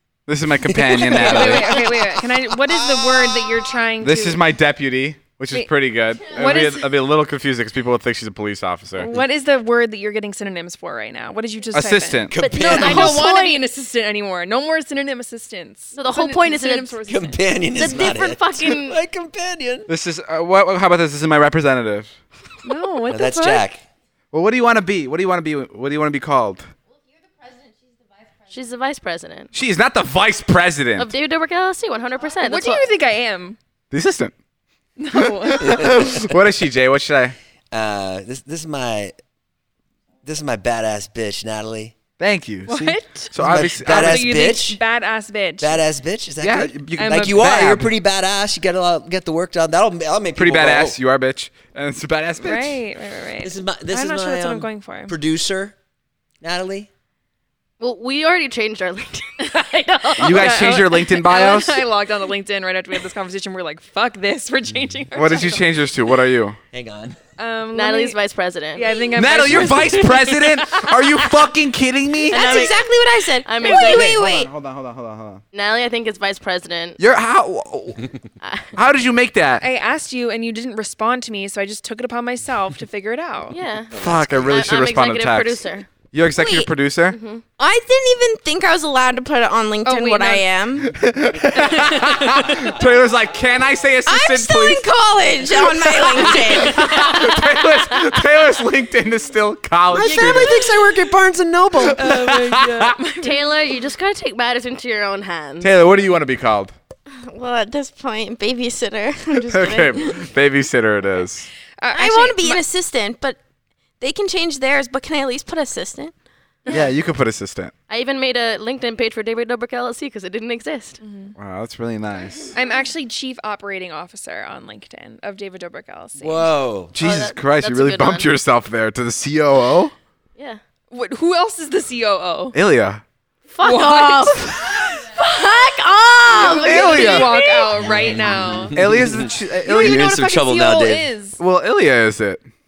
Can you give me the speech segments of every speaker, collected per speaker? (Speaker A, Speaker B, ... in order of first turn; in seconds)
Speaker A: 0.3-1.9, 4.0-9.1, 11.7-12.3, 19.9-22.1, 24.3-26.7, 29.5-31.1, 33.9-34.3, 35.1-37.4, 42.2-44.3, 46.4-47.9, 50.4-52.8, 60.2-61.8, 65.1-66.6, 69.1-72.6, 73.7-75.4, 77.0-78.1, 78.7-79.6, 83.9-87.2, 90.8-94.8, 96.4-100.9, 101.7-102.9, 105.6-106.7, 109.5-111.5, 116.7-117.7, 121.4-122.5, 126.9-129.9, 132.5-133.0, 136.6-137.3, 138.7-140.1, 141.4-142.4
Speaker B: 0.7-1.6, 12.3-13.2, 17.1-19.9, 23.1-23.8, 35.6-36.2, 37.7-39.2, 40.2-41.9, 43.4-44.8, 45.6-51.0, 53.4-55.7, 56.4-56.9, 66.7-67.2, 99.9-102.0, 126.2-126.9, 137.8-141.1
Speaker C: 1.0-4.4, 6.3-6.9, 9.0-17.4, 22.6-23.6, 32.4-33.6, 35.0-36.0, 42.7-45.8, 47.0-47.4, 52.4-55.1, 60.0-65.7, 67.4-68.2, 68.7-71.0, 79.6-83.6, 89.8-90.5, 91.8-92.1, 102.0-103.4, 111.8-112.6, 121.0-121.3, 122.5-126.5, 130.9-132.6, 133.6-135.0, 136.2-138.8, 139.6-141.4
Speaker D: 12.4-13.6, 15.9-17.0, 17.7-19.0, 28.5-29.5, 31.0-32.9, 57.8-60.8, 67.7-69.0, 72.3-72.9, 73.4-74.2, 75.5-77.0, 78.4-78.7, 83.5-85.9, 87.1-87.4, 100.0-100.7, 103.2-105.7, 117.9-121.0, 127.0-128.3, 133.5-137.8
Speaker E: 72.3-74.5, 86.3-86.7, 87.6-90.9, 94.0-97.1, 107.1-110.2, 111.9-113.4, 114.0-116.1